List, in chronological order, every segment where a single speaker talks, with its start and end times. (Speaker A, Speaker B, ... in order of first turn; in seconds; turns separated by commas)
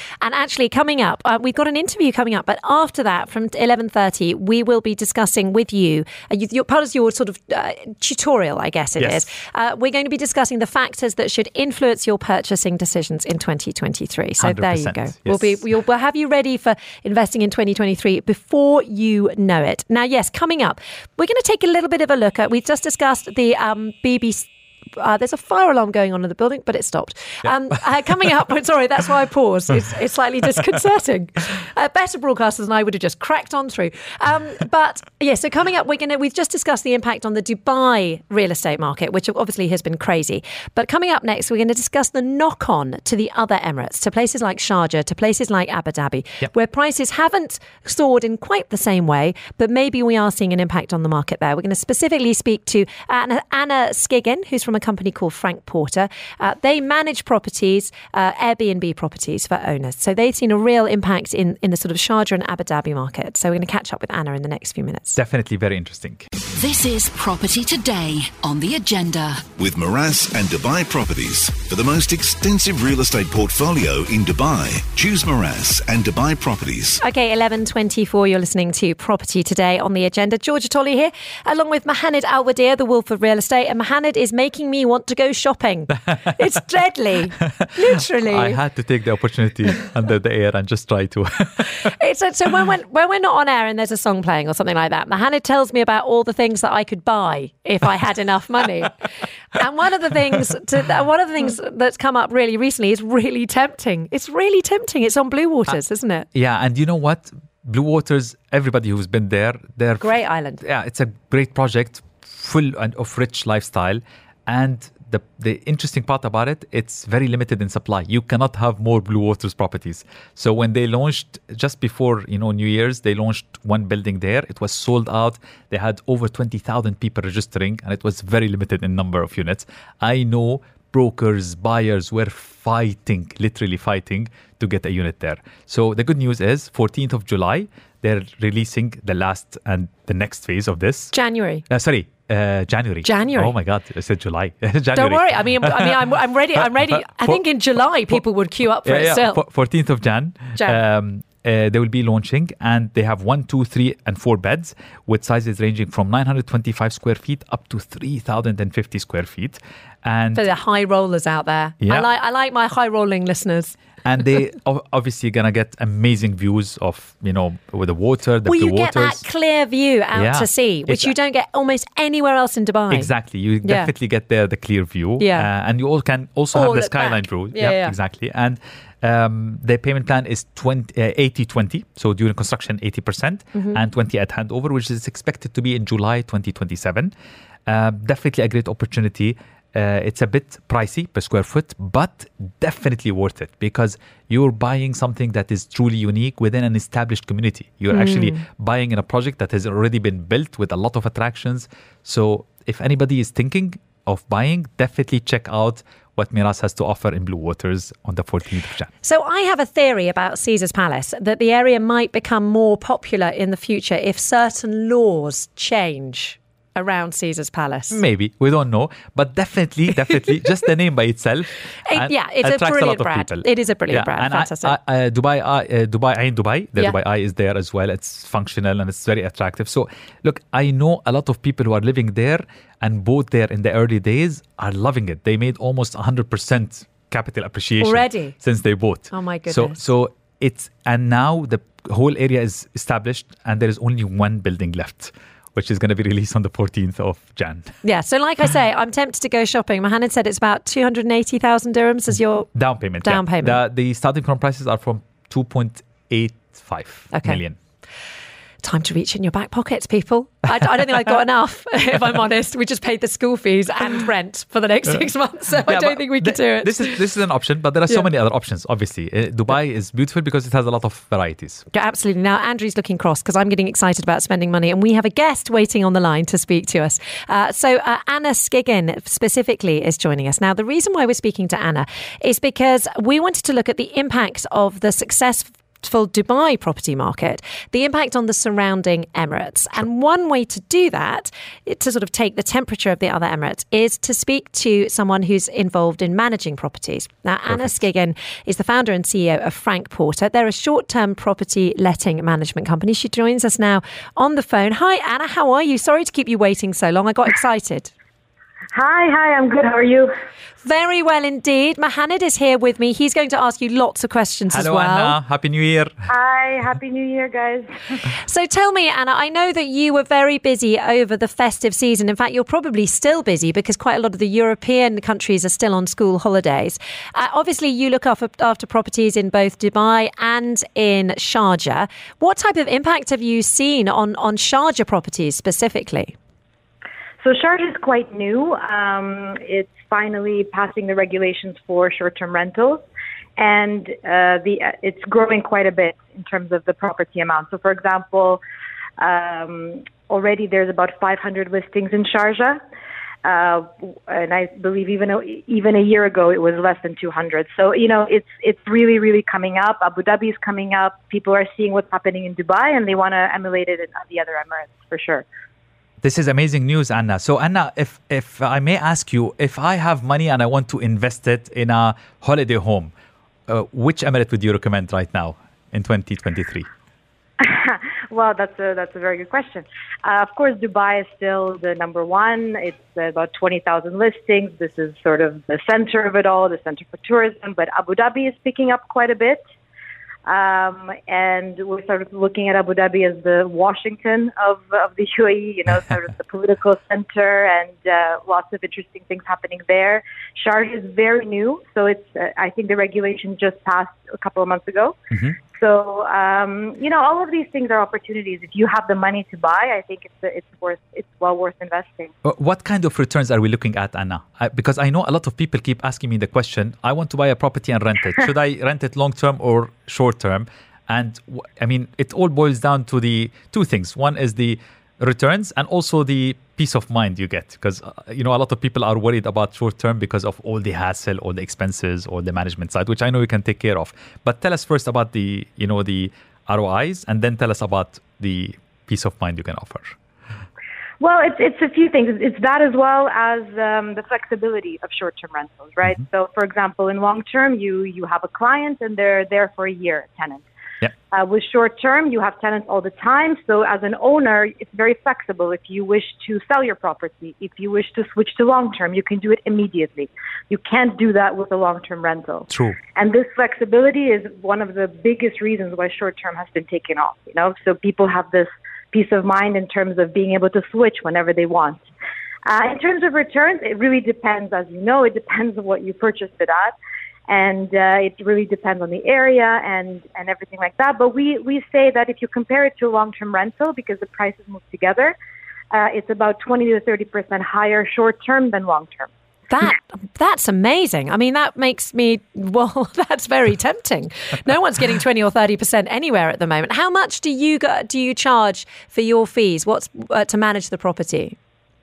Speaker A: 0.2-65.2, Speaker B: 9.0-9.3, Speaker B: 14.4-15.6, Speaker B: 65.2-66.3, Speaker C: 66.5-69.5, Speaker D: 69.6-77.0, Speaker A: 77.0-88.6, Speaker B: 88.3-91.7, Speaker A: 91.8-106.3, Speaker B: 106.3-141.1, Speaker A: 110.0-110.6, Speaker A: 141.1-141.6, Speaker B: 141.7-145.9, Speaker A: 143.0-143.5, Speaker A: 144.9-149.4, Speaker B: 146.6-147.4, Speaker B: 148.8-160.4, Speaker A: 160.3-163.8, Speaker B: 161.8-162.1, Speaker B: 164.0-169.2, Speaker A: 168.4-173.1, Speaker B: 170.1-171.1, Speaker B: 172.9-187.1, Speaker A: 173.6-173.9, Speaker A: 175.2-175.5, Speaker A: 176.5-177.9, Speaker B: 187.7-208.9, Speaker A: 197.9-198.4, Speaker A: 209.0-218.0, Speaker B: 217.9-247.7, Speaker A: 221.8-224.8, Speaker A: 237.8-238.3, Speaker A: 239.1-239.8, Speaker A: 247.8-252.5, Speaker B: 252.5-257.6, Speaker A: 253.0-253.6, Speaker A: 257.1-257.4, Speaker A: 258.6-267.0, Speaker B: 265.6-271.6, Speaker A: 271.7-307.9, Speaker E: 308.7-310.1, Speaker A: 310.6-315.1, Speaker B: 314.5-315.9, Speaker E: 316.1-317.7, Speaker A: 318.1-336.1, Speaker E: 337.2-342.8, Speaker E: 343.4-348.4, Speaker E: 349.0-352.6, Speaker E: 353.2-365.2, Speaker B: 366.0-372.9, Speaker B: 373.5-376.7, Speaker E: 377.4-389.4, Speaker E: 390.2-404.9, Speaker E: 405.5-412.1, Speaker B: 412.2-439.9, Speaker E: 441.0-450.4, Speaker E: 451.1-471.8, Speaker B: 462.5-462.8, Speaker E: 472.4-476.7, Speaker E: 477.3-485.1, Speaker E: 485.7-489.1, Speaker A: 489.5-501.4